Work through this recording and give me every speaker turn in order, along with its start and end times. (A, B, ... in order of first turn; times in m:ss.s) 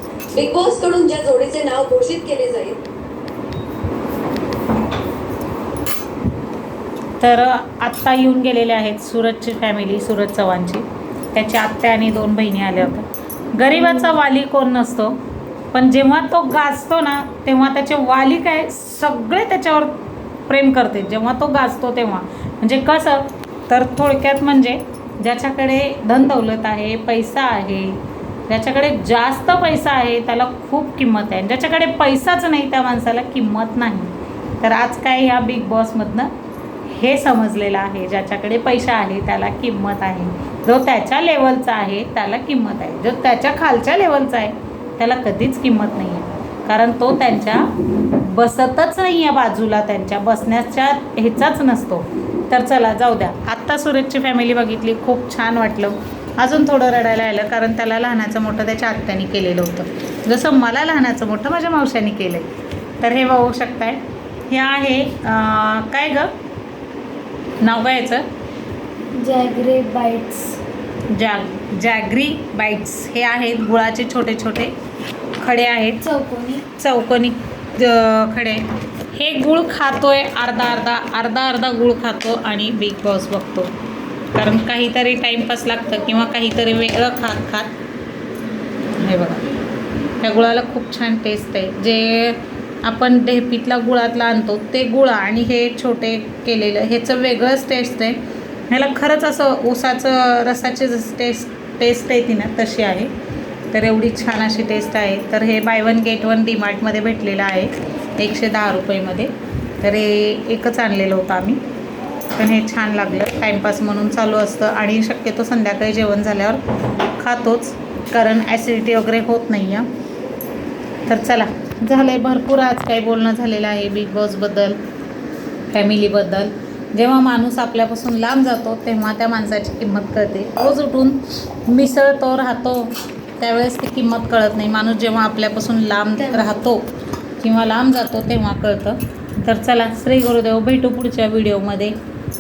0:00.3-0:02.8 A
0:07.2-0:15.2 B
0:15.7-0:20.0 B
0:20.5-0:36.3 B
0:36.9-1:06.3 B
1:07.6-1:08.2 B
1:09.2-1:10.6 C
1:11.1-1:14.7 B
1:15.4-1:16.1 B
1:16.0-1:16.6 C
1:16.7-1:23.7 B
1:24.3-1:27.7 B
1:28.9-1:29.4 B
1:30.2-1:38.2 B
1:38.7-1:43.1 B
1:43.7-1:51.6 B
1:52.4-1:59.9 B
2:01.1-2:04.8 B
2:05.7-2:21.9 B